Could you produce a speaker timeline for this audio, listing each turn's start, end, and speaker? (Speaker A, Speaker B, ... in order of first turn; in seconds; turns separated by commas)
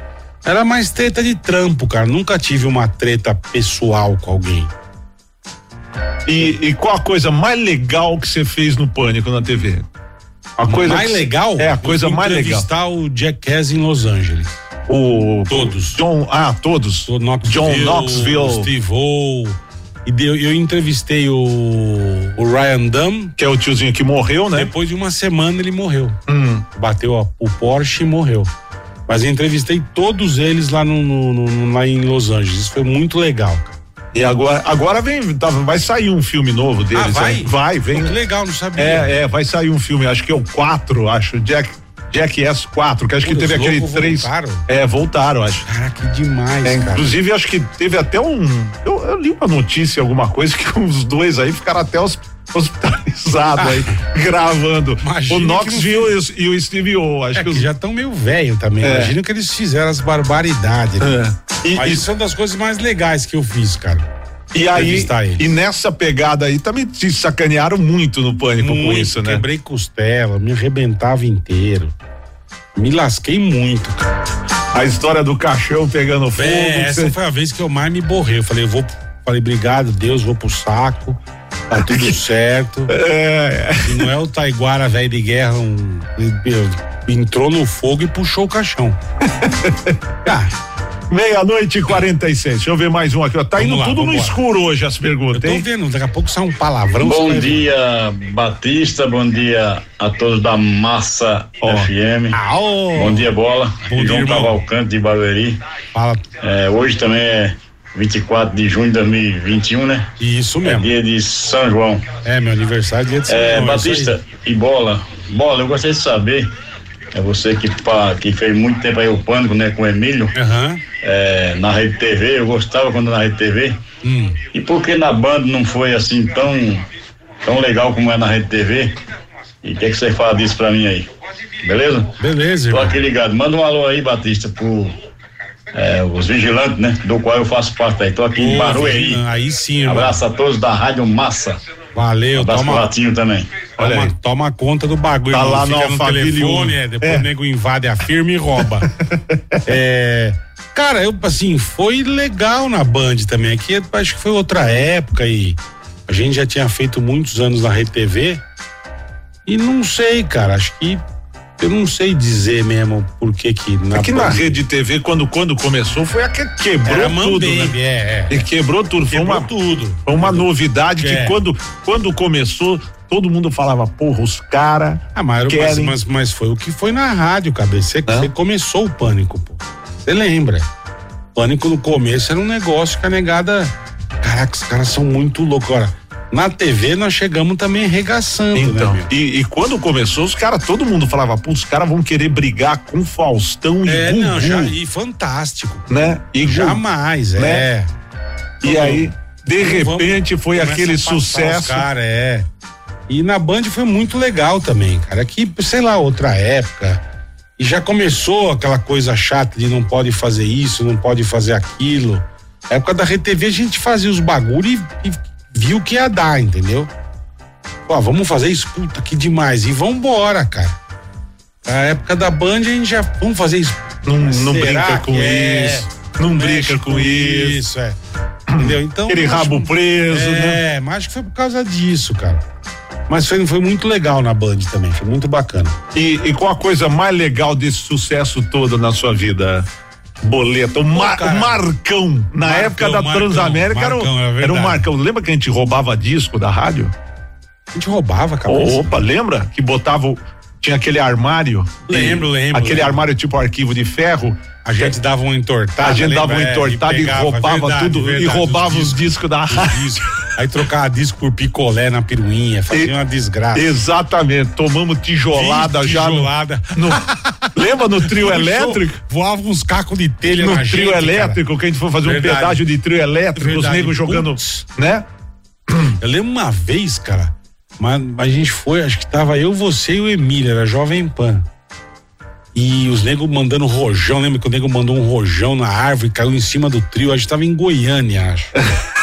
Speaker A: 0.4-4.7, Speaker B: 6.2-9.9, Speaker B: 10.6-12.7, Speaker A: 10.7-14.6, Speaker B: 14.9-18.7, Speaker A: 15.5-16.0, Speaker A: 17.1-23.3, Speaker B: 23.4-24.7, Speaker A: 24.5-26.2, Speaker B: 26.3-26.6, Speaker A: 26.7-28.5, Speaker A: 29.1-33.8, Speaker B: 34.1-38.1, Speaker A: 36.9-39.2, Speaker B: 38.8-45.6, Speaker A: 43.2-44.6, Speaker A: 45.6-47.1, Speaker B: 46.6-57.7, Speaker A: 53.6-53.9, Speaker A: 55.0-56.1, Speaker A: 57.3-61.2, Speaker B: 58.8-59.1, Speaker B: 61.0-62.0, Speaker A: 61.8-64.1, Speaker B: 64.5-69.4, Speaker A: 64.7-65.5, Speaker A: 68.6-71.9, Speaker A: 72.8-74.1, Speaker B: 74.7-77.1, Speaker A: 76.3-82.9, Speaker B: 81.8-82.2, Speaker B: 82.9-84.1, Speaker A: 83.8-89.0, Speaker B: 89.4-90.0, Speaker A: 90.2-90.5, Speaker B: 91.1-95.7, Speaker A: 93.6-94.4, Speaker A: 95.3-97.7, Speaker C: 97.0-102.4, Speaker B: 101.6-101.9, Speaker A: 102.3-103.3, Speaker C: 102.9-105.6, Speaker A: 103.8-104.6, Speaker A: 105.9-106.2, Speaker C: 106.4-110.1, Speaker A: 110.2-110.9, Speaker C: 110.7-112.1, Speaker A: 112.2-114.2, Speaker C: 113.3-116.5, Speaker C: 117.1-120.3, Speaker A: 120.3-120.8, Speaker C: 121.0-123.8, Speaker A: 124.0-124.4, Speaker C: 124.5-126.8, Speaker C: 127.4-128.9, Speaker C: 129.6-131.1, Speaker C: 131.6-132.1, Speaker A: 132.2-133.0, Speaker C: 132.7-134.9, Speaker C: 135.7-139.2, Speaker A: 138.4-140.2, Speaker C: 139.8-141.6, Speaker A: 141.9-142.9, Speaker C: 142.4-143.7, Speaker A: 143.8-148.9, Speaker B: 143.8-144.1, Speaker B: 145.3-147.2, Speaker B: 149.0-149.6, Speaker A: 149.6-158.4, Speaker A: 159.4-161.0, Speaker A: 161.6-164.6, Speaker B: 163.9-167.8, Speaker A: 166.9-168.4, Speaker B: 168.3-169.5, Speaker A: 169.1-171.4, Speaker B: 170.1-175.9, Speaker A: 175.1-180.7, Speaker A: 181.3-189.1, Speaker B: 188.5-194.8, Speaker A: 193.8-197.9, Speaker B: 195.9-196.8, Speaker B: 197.3-197.7, Speaker B: 198.6-201.9, Speaker A: 198.6-202.5, Speaker A: 203.1-207.0, Speaker A: 207.6-216.9, Speaker A: 217.9-220.8, Speaker A: 221.6-228.0, Speaker B: 224.0-227.6, Speaker B: 228.5-230.6, Speaker A: 228.6-232.4, Speaker A: 233.1-235.8, Speaker B: 235.9-239.7, Speaker B: 240.2-246.9, Speaker A: 240.9-241.6, Speaker A: 242.4-244.9, Speaker A: 247.7-249.0, Speaker B: 248.5-254.9, Speaker A: 251.9-253.0, Speaker A: 254.6-263.7, Speaker B: 255.8-259.9, Speaker B: 263.5-267.0, Speaker A: 265.3-267.4, Speaker B: 267.5-269.0, Speaker A: 268.0-271.4, Speaker B: 270.3-275.1, Speaker A: 272.0-272.6, Speaker A: 273.3-274.6, Speaker B: 275.7-276.0, Speaker A: 276.0-281.4, Speaker A: 282.5-288.6